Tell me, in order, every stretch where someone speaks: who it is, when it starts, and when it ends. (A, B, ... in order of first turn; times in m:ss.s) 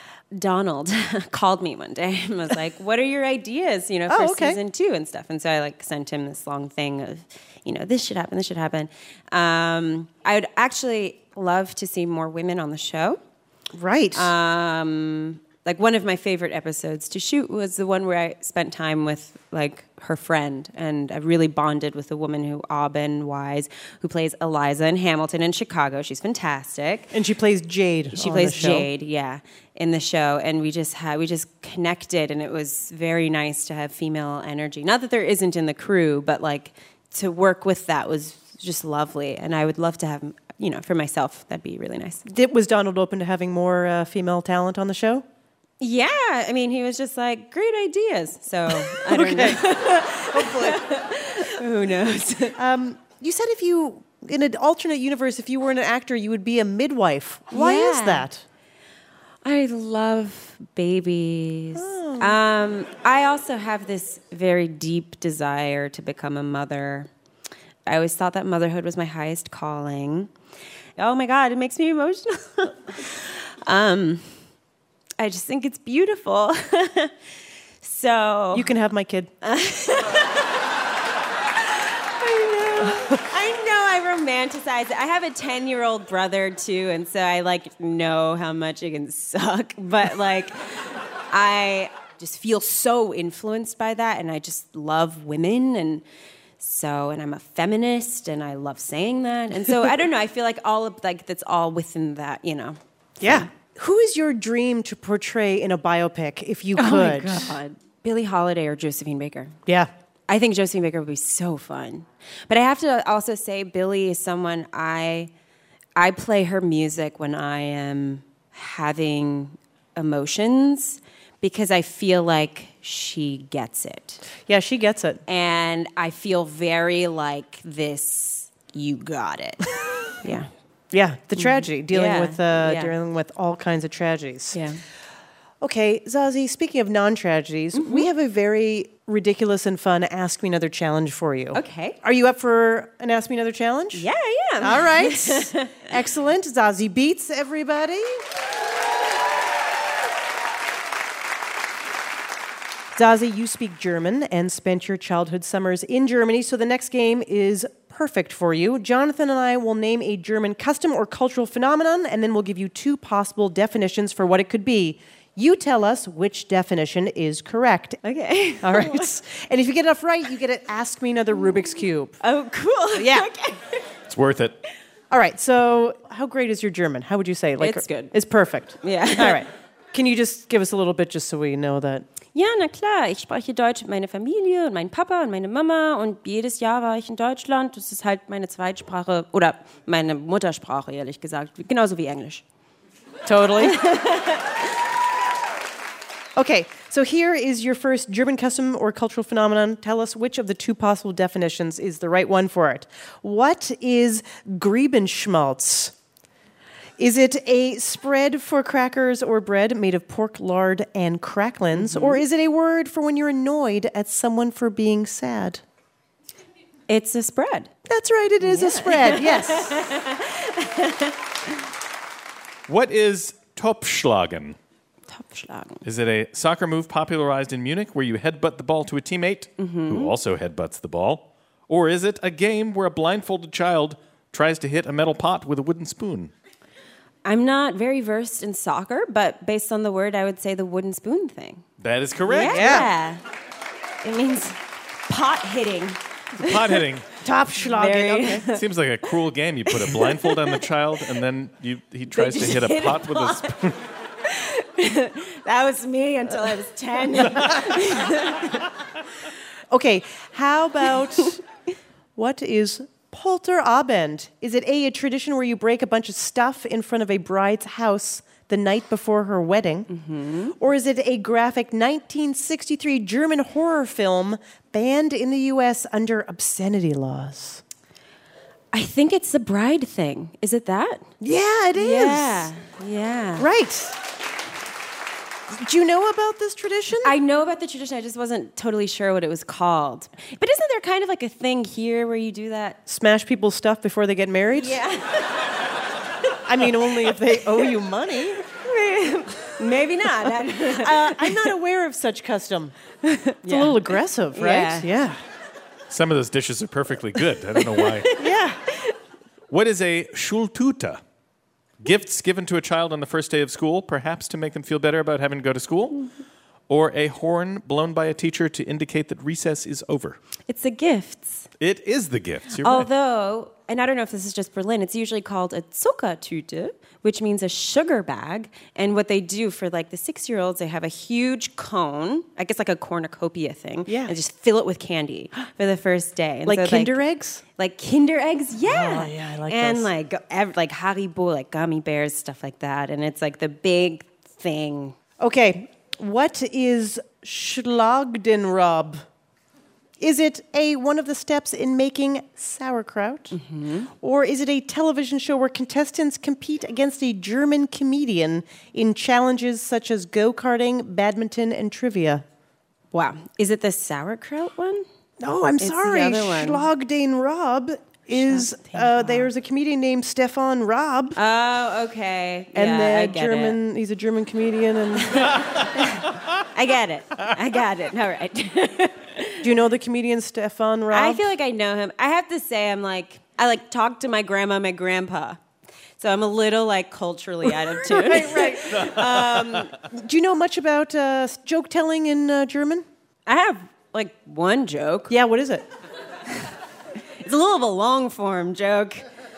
0:00.3-0:13.2 A
0:04.1-0:04.6 B
0:13.8-0:14.3 B
0:14.1-0:27.1 A
0:27.1-0:28.9 B
0:28.1-0:42.2 A
0:42.2-0:45.2 B
0:45.8-0:52.6 A
0:48.7-0:50.8 B
0:52.5-0:58.4 B
0:57.5-0:58.3 A
0:59.4-1:07.1 A
1:01.7-1:02.4 B
1:07.8-1:10.3 A
1:11.0-1:14.2 A
1:15.2-1:17.1 A
1:17.8-1:18.7 A
1:18.5-1:19.3 B
1:19.4-1:20.6 A
1:21.6-1:36.0 A
1:36.6-1:43.5 A
1:43.2-1:47.5 B
1:46.7-1:49.6 A
1:50.3-1:55.3 A
1:56.0-2:04.2 A
2:04.4-2:05.2 B
2:05.3-2:10.5 A
2:10.9-2:14.6 B
2:11.4-2:12.9 A
2:14.5-2:14.8 A
2:15.6-2:24.1 B
2:17.7-2:18.1 A
2:21.5-2:22.0 A
2:23.9-2:25.8 A
2:24.6-2:28.2 B
2:33.0-2:48.0 B
2:48.0-2:49.1 A
2:48.6-2:52.2 B
2:52.2-2:53.8 A
2:52.9-2:53.3 B
2:54.1-2:54.5 C
2:55.1-3:02.0 B
2:57.6-2:58.1 A
2:58.8-2:59.4 A
3:02.3-3:12.4 A
3:13.2-3:13.8 B
3:13.6-3:14.6 A
3:16.4-3:25.9 B
3:27.0-3:35.6 B
3:31.7-3:32.2 A
3:36.9-3:37.7 A
3:37.9-3:39.9 B
3:38.4-3:41.5 A
3:42.7-3:44.6 C
3:45.1-3:45.8 A
3:45.8-3:56.3 C
3:49.6-3:50.1 A
3:57.2-4:01.6 A
4:01.8-4:02.8 C
4:02.2-4:03.2 A
4:02.4-4:02.9 B
4:04.0-4:06.8 A
4:06.4-4:07.0 C
4:07.2-4:08.5 B
4:07.6-4:08.6 A
4:08.5-4:13.7 C
4:09.7-4:10.6 A
4:12.1-4:13.6 A
4:14.3-4:18.6 A
4:19.7-4:21.4 B
4:22.2-4:29.9 B
4:29.9-4:30.5 A
4:30.6-4:37.6 B
4:38.7-4:41.1 A
4:41.2-4:42.5 B
4:41.7-4:43.5 A
4:43.4-4:44.0 B
4:45.5-4:47.1 B
4:47.0-4:52.8 A
4:52.8-4:54.8 B
4:54.5-4:55.6 A
4:56.4-4:58.4 B
4:58.5-5:01.6 A
5:00.6-5:02.7 B
5:03.0-5:04.9 A
5:03.4-5:05.2 B
5:05.9-5:08.1 C
5:07.5-5:08.9 A
5:08.2-5:08.6 B
5:09.5-5:11.0 C
5:11.8-5:16.0 C
5:16.7-5:20.2 C
5:20.5-5:21.5 A
5:21.6-5:22.9 C
5:22.5-5:37.0 A
5:33.9-5:34.1 B
5:36.4-5:37.4 B
5:37.6-5:45.0 A
5:38.6-5:39.9 B
5:45.2-5:49.0 B
5:50.0-5:53.4 B
5:53.3-5:53.9 A
5:54.0-6:02.2 B
6:02.9-6:04.8 A
6:05.2-6:11.2 B
6:05.6-6:06.7 A
6:08.1-6:09.3 A
6:11.2-6:13.6 A
6:12.5-6:15.3 B
6:15.0-6:19.5 A
6:19.4-6:21.2 B
6:20.9-6:25.4 A
6:26.0-6:29.8 A
6:27.8-6:32.8 B
6:33.2-6:35.1 A
6:35.1-6:35.6 B
6:37.2-6:39.0 A